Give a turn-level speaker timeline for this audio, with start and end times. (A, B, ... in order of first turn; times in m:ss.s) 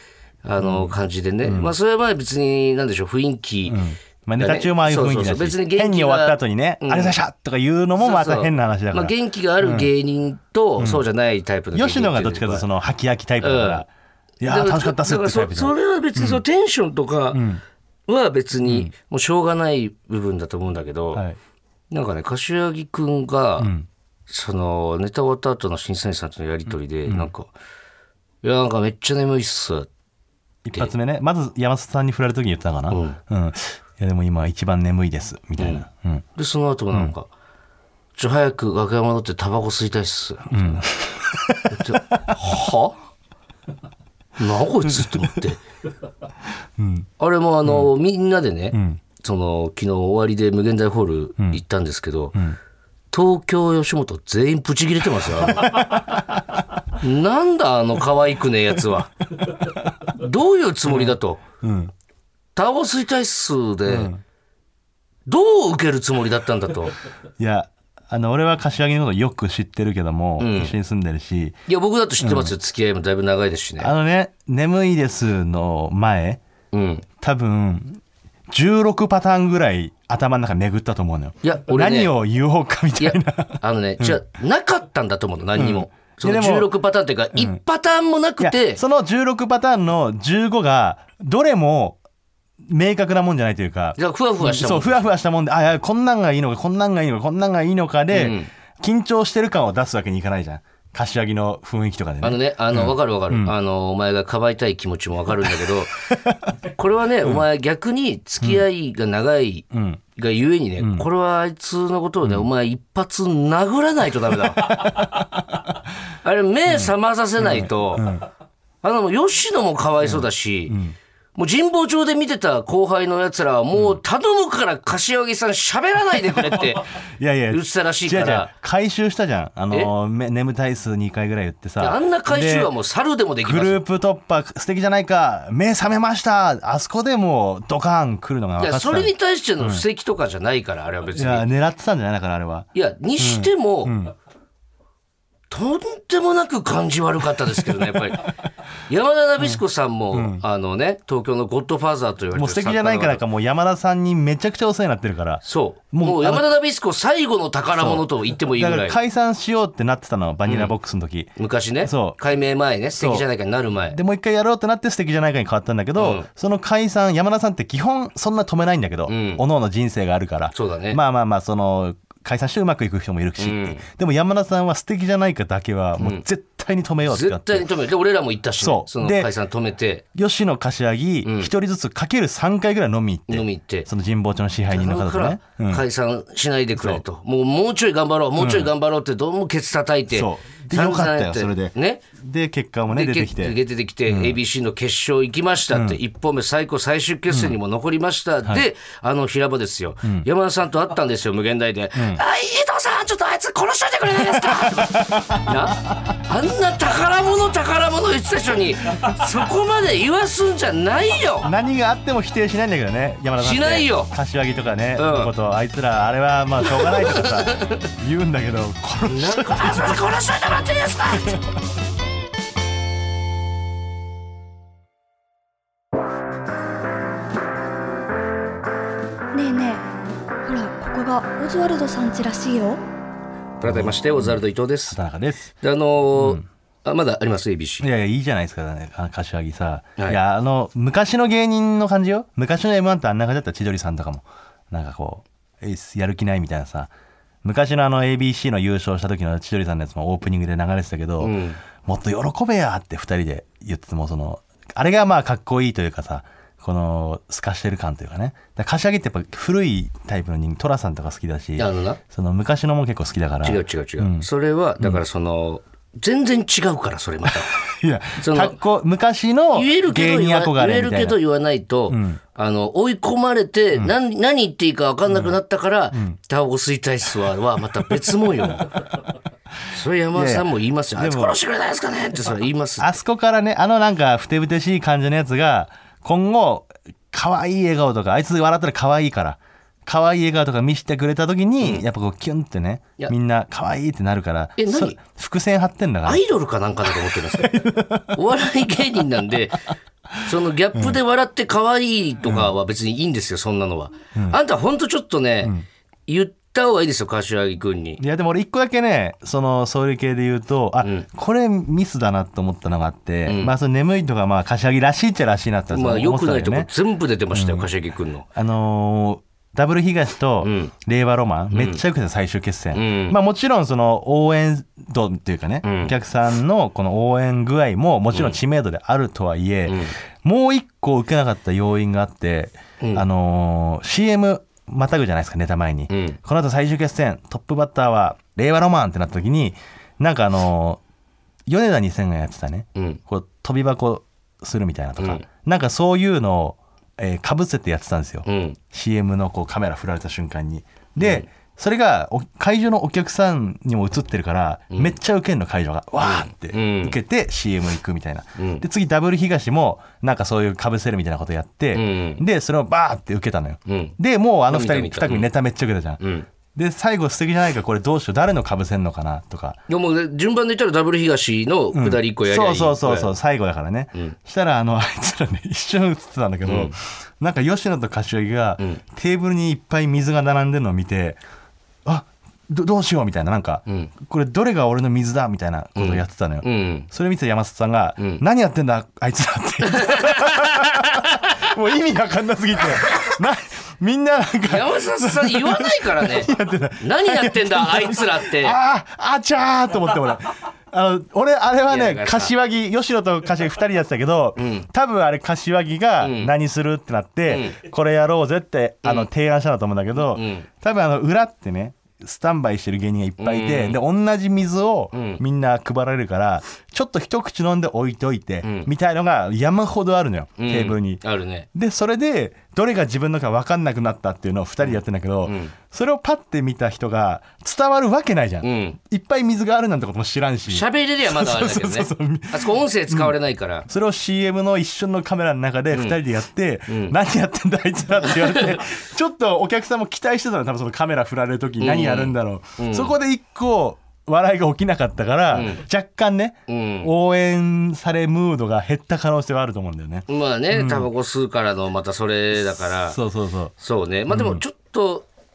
0:00.4-0:03.8 A
0:00.6-0:01.7 B
0:03.7-0:09.9 B
0:04.4-0:07.2 A
0:08.0-0:12.7 A
0:10.8-0:11.0 B
0:11.7-0:13.9 B
0:13.4-0:13.8 A
0:14.4-0:16.4 B
0:14.4-0:17.4 A
0:17.3-0:17.6 B
0:18.1-0:21.2 A
0:18.6-0:18.9 B
0:21.9-0:23.7 A
0:23.6-0:23.9 B
0:24.3-0:27.5 A
0:27.1-0:27.3 B
0:28.4-0:29.9 A
0:30.6-0:36.2 B
0:32.9-0:33.2 A
0:35.6-0:35.8 A
0:36.4-0:37.3 A
0:38.2-0:40.8 A
0:40.5-0:42.8 B
0:41.7-0:42.9 A
0:44.4-0:45.6 A
0:45.0-0:45.3 B
0:46.8-0:47.1 B
0:47.2-0:52.4 A
0:47.6-0:47.9 B
0:48.7-0:49.0 B
0:53.1-0:55.8 A
0:55.4-0:56.6 B
0:57.0-0:59.1 A
0:59.6-0:59.9 B
1:00.1-1:01.4 A
1:00.9-1:01.9 B
1:02.6-1:04.1 A
1:03.9-1:04.2 B
1:05.3-1:07.0 A
1:07.4-1:11.6 B
1:10.4-1:10.8 A
1:11.7-1:13.9 A
1:12.2-1:12.5 B
1:13.8-1:16.4 B
1:16.7-1:17.0 A
1:17.2-1:24.2 B
1:21.4-1:22.1 A
1:23.0-1:28.8 A
1:25.6-1:26.7 B
1:28.4-1:32.0 B
1:32.6-1:43.5 B
1:34.0-1:35.0 A
1:38.1-1:38.5 A
1:42.2-1:46.1 A
1:46.8-1:55.0 A
1:49.7-1:50.0 B
1:50.8-1:51.1 B
1:54.5-1:55.7 B
1:56.2-1:58.1 A
1:56.7-1:58.3 B
1:58.8-2:00.8 A
2:00.0-2:01.0 B
2:01.4-2:07.0 A
2:06.4-2:12.7 B
2:07.5-2:08.5 A
2:11.8-2:13.8 A
2:13.4-2:19.8 B
2:18.6-2:21.5 A
2:21.2-2:24.1 B
2:22.7-2:24.0 A
2:25.5-2:28.3 A
2:28.9-2:33.2 A
2:30.1-2:30.4 B
2:32.3-2:36.5 B
2:35.4-2:39.0 A
2:37.8-2:42.2 B
2:40.5-2:40.7 A
2:41.4-2:44.0 A
2:43.0-2:43.3 B
2:43.9-2:57.7 B
2:46.0-2:46.3 A
2:49.1-2:49.4 A
2:50.5-2:51.0 A
2:53.4-2:53.8 A
2:57.1-3:00.0 A
2:58.6-2:59.3 B
3:00.1-3:05.8 B
3:01.2-3:01.5 A
3:03.3-3:03.9 A
3:04.7-3:12.0 A
3:06.8-3:07.0 B
3:08.4-3:08.7 B
3:10.1-3:14.4 B
3:12.9-3:31.5 A
3:15.7-3:16.0 B
3:17.3-3:17.6 B
3:22.0-3:22.2 B
3:24.3-3:26.0 B
3:31.4-3:40.0 B
3:33.4-3:34.1 A
3:35.0-3:35.3 A
3:36.8-3:37.9 A
3:39.1-3:41.4 A
3:49.3-3:50.0 C
3:50.5-3:52.8 C
3:53.6-3:55.0 A
3:53.6-3:54.4 B
3:54.9-3:55.5 B
3:55.6-3:57.9 A
3:56.2-3:56.4 B
3:57.8-4:06.9 B
4:07.4-4:24.3 B
4:11.2-4:11.6 A
4:21.6-4:22.0 A
4:23.4-4:27.6 A
4:27.3-4:31.2 B
4:28.2-4:28.6 A
4:29.5-4:38.8 A
4:31.9-4:32.2 B
4:35.1-4:35.4 B
4:35.9-4:36.2 B
4:39.7-4:43.0 A
4:40.1-4:41.4 B
4:42.8-4:56.2 B
4:54.6-4:55.0 A
4:56.1-4:57.6 A
4:56.8-4:58.2 B
4:58.1-4:59.7 A
5:00.2-5:05.5 A
5:02.2-5:02.5 B
5:06.1-5:08.0 A
5:08.0-5:16.7 B
5:13.3-5:13.5 A
5:15.7-5:18.3 A
5:17.3-5:17.7 B
5:18.4-5:40.8 B
5:20.4-5:20.7 A
5:21.5-5:21.8 A
5:22.7-5:23.2 A
5:25.6-5:25.9 A
5:28.1-5:28.4 A
5:29.7-5:30.0 A
5:35.9-5:36.2 A
5:41.5-6:06.0 B
5:42.8-5:43.0 A
5:45.0-5:45.2 A
5:48.3-5:48.6 A
5:51.0-5:51.3 A
5:54.7-5:55.0 A
5:56.0-5:57.0 A
5:58.4-5:58.6 A
6:01.7-6:02.2 A
6:03.7-6:04.0 A
6:04.5-6:05.3 A
6:06.0-6:06.3 A
6:06.6-6:09.6 B
6:09.7-6:13.1 A
6:11.7-6:21.2 B
6:16.4-6:16.7 A
6:21.8-7:01.0 B
6:25.8-6:26.9 A
6:29.7-6:31.2 A
6:34.4-6:38.6 A
6:41.7-6:42.3 A
6:44.4-6:44.7 A
6:46.0-6:46.3 A
6:47.3-6:47.6 A
6:48.8-6:49.1 A
6:50.0-6:50.5 A
6:53.2-6:53.8 A
6:54.9-6:55.2 A
6:58.4-6:58.7 A
7:00.4-7:01.5 A
7:01.5-7:13.2 B
7:05.2-7:05.5 A
7:08.4-7:08.8 A
7:10.5-7:13.7 A
7:13.7-7:30.9 B
7:15.7-7:16.0 A
7:16.7-7:17.0 A
7:18.2-7:18.6 A
7:21.6-7:22.9 A
7:25.3-7:25.6 A
7:26.5-7:26.9 A
7:30.1-7:33.0 A
7:32.7-7:33.5 B
7:33.6-7:35.1 A
7:34.1-7:34.4 B